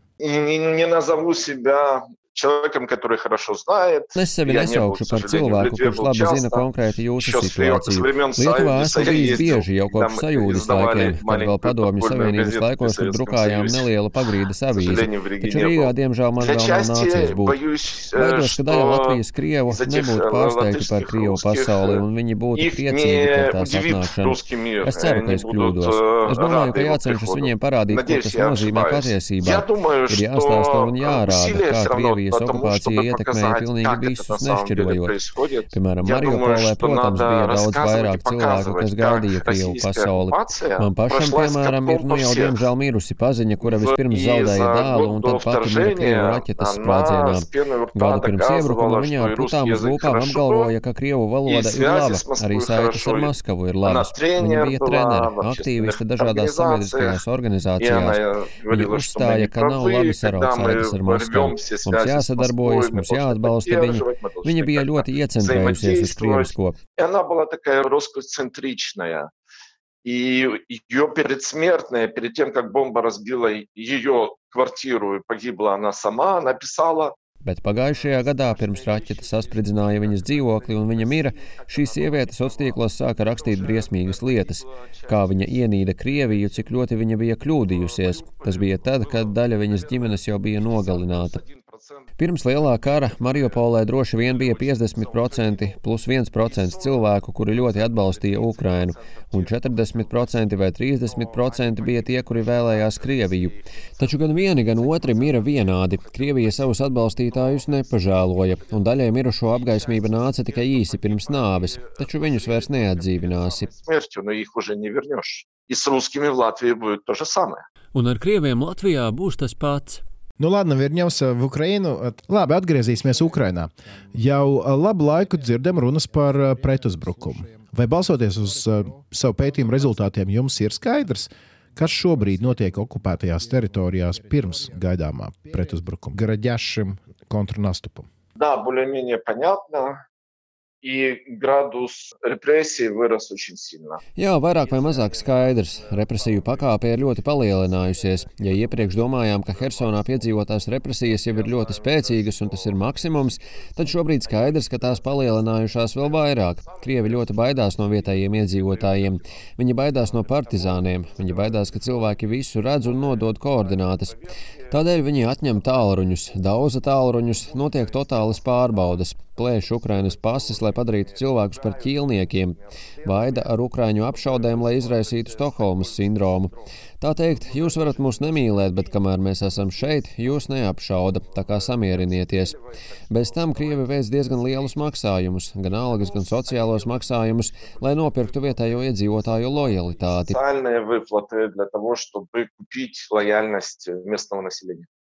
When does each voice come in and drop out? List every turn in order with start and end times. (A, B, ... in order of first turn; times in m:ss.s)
0:00.2-0:13.9 A
0:04.2-0:17.6 B
0:14.7-0:22.0 A
0:18.1-0:35.1 B
0:22.6-0:42.6 A
0:35.7-1:06.8 B
0:43.6-0:50.7 A
0:51.5-0:53.3 A
0:53.8-0:57.2 A
0:57.8-1:09.3 A
1:10.0-1:17.2 A
1:17.4-1:31.4 B
1:17.9-1:26.7 A
1:27.6-1:32.1 A
1:32.2-1:53.7 B
1:32.7-1:35.8 A
1:36.4-1:57.6 A
1:57.9-2:00.0 B
2:00.4-2:18.1 C
2:18.4-2:20.0 A
2:20.8-2:24.0 A
2:24.2-3:02.6 B
2:24.6-2:39.2 A
2:39.9-2:46.3 A
2:47.2-2:52.2 A
2:53.0-2:56.5 A
2:57.2-3:00.4 A
3:01.3-3:05.1 A
3:03.1-3:10.4 B
3:05.7-3:14.9 A